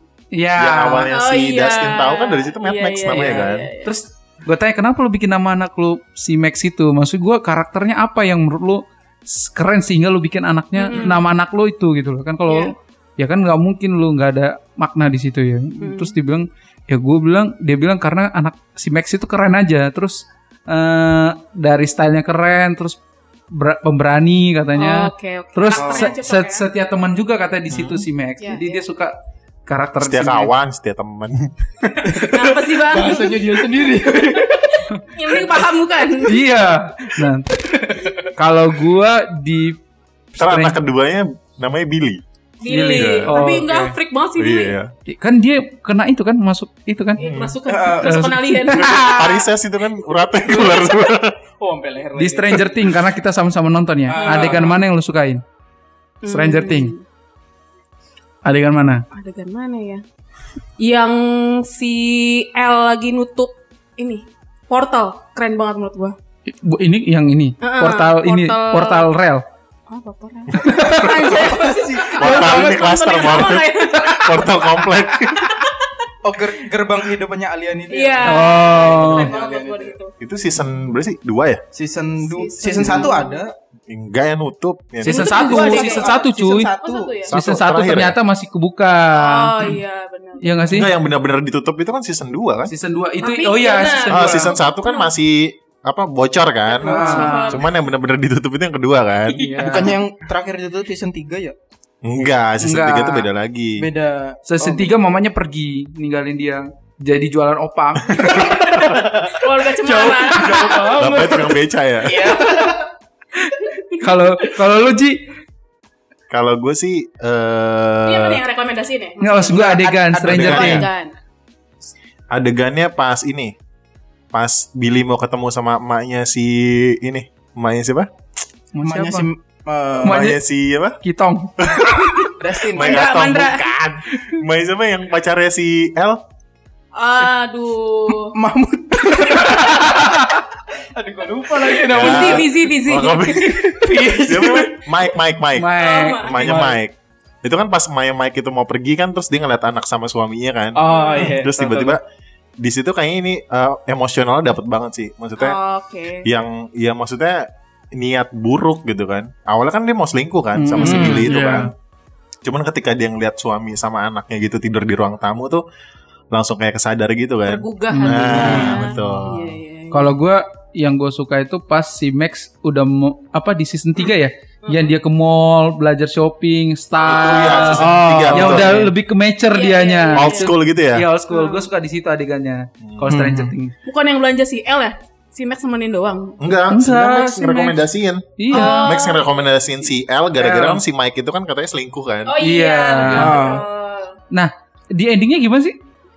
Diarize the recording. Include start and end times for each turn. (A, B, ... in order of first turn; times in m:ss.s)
0:00.3-0:01.1 A
0:00.6-0:03.7 B
0:01.1-0:04.0 C
0:03.8-0:23.0 A
0:10.8-0:11.2 C
0:12.5-0:12.7 C
0:15.8-0:16.1 C
0:23.5-0:30.5 A
0:24.8-0:26.7 C
0:25.8-0:26.2 D
0:27.7-0:28.1 B
0:28.4-0:28.8 C
0:30.0-0:31.9 B
0:32.0-0:34.8 D
0:32.2-0:36.4 C
0:36.2-0:39.8 A
0:37.7-0:38.3 D
0:40.3-0:40.8 A
0:40.4-0:42.2 B
0:42.6-0:44.8 C
0:42.6-0:44.0 A
0:42.9-0:43.4 B
0:44.4-0:44.9 B
0:45.1-0:47.2 A
0:47.2-0:49.5 C
0:47.2-0:47.6 B
0:47.7-0:48.3 D
0:48.0-0:49.3 A
0:48.7-0:51.4 B
0:51.6-0:52.9 D
0:52.2-0:55.4 A
0:54.1-0:54.8 D
0:54.2-0:54.8 C
0:56.2-0:57.0 C
0:56.3-0:56.9 A
0:58.4-0:59.0 A
0:59.1-1:00.0 C
1:00.8-1:06.2 C
1:06.5-1:09.4 A
1:07.6-1:09.1 C
1:09.9-1:14.6 C
1:10.6-1:11.3 A
1:11.0-1:12.6 D
1:12.2-1:15.5 B
1:15.4-1:15.7 C
1:16.2-1:20.0 D
1:17.9-1:20.1 C
1:18.2-1:19.3 A
1:20.2-1:21.6 B
1:21.7-1:23.5 D
1:22.2-1:23.4 C
1:23.9-1:25.4 B
1:25.0-1:26.7 A
1:25.0-1:26.2 C
1:25.3-1:27.2 D
1:26.8-1:27.3 C
1:27.3-1:28.2 B
1:27.3-1:29.7 A
1:29.2-1:30.5 C
1:30.4-1:30.9 A
1:30.7-1:32.7 B
1:32.7-1:34.6 A
1:33.2-1:35.1 C
1:34.1-1:39.6 B
1:36.8-1:37.6 C
1:36.8-1:37.4 D
1:36.8-1:37.6 A
1:39.4-1:40.0 A
1:39.5-1:41.6 D
1:42.0-1:43.9 B
1:42.6-1:43.3 A
1:43.8-1:45.0 D
1:44.5-1:48.5 A
1:48.3-1:52.9 D
1:48.5-1:50.9 C
1:50.4-1:51.4 A
1:50.9-1:52.4 B
1:52.5-1:52.7 A
1:53.4-1:55.2 A
1:56.3-1:58.4 B
1:58.0-2:01.1 C
1:59.2-2:00.9 A
1:59.5-2:00.8 D
2:00.2-2:00.9 B
2:02.3-2:03.6 B
2:04.3-2:08.1 B
2:08.7-2:09.3 A
2:08.8-2:10.2 D
2:10.0-2:11.0 B
2:10.0-2:10.4 A
2:11.0-2:11.7 A
2:11.6-2:12.2 B
2:12.2-2:13.7 C
2:12.4-2:13.1 D
2:12.7-2:16.2 B
2:17.0-2:18.3 C
2:18.1-2:22.6 D
2:21.8-2:23.5 C
2:21.9-2:32.0 B
2:23.3-2:25.0 D
2:25.6-2:26.8 A
2:25.8-2:26.6 C
2:30.8-2:32.0 D
2:30.9-2:31.4 C
2:32.6-2:35.6 B
2:35.4-2:36.3 C
2:36.2-2:41.7 B
2:40.6-2:41.7 A
2:40.8-2:41.3 D
2:42.4-2:45.6 B
2:46.3-2:49.6 B
2:47.5-2:50.1 C
2:48.0-2:48.8 A
2:48.4-2:48.8 D
2:49.9-3:03.7 A
2:54.6-2:55.0 C
2:57.0-2:58.9 B
2:57.4-2:57.7 C
2:57.8-2:58.9 D
2:59.5-3:00.6 C
3:00.2-3:01.1 B
3:01.3-3:01.7 C
3:02.8-3:03.5 B
3:03.8-3:06.4 C
3:06.4-3:12.4 B
3:06.7-3:07.8 A
3:08.4-3:08.9 A
3:08.5-3:09.2 C
3:10.4-3:10.8 A
3:12.3-3:14.2 C
3:12.4-3:13.4 A
3:13.1-3:13.6 D
3:14.3-3:15.8 A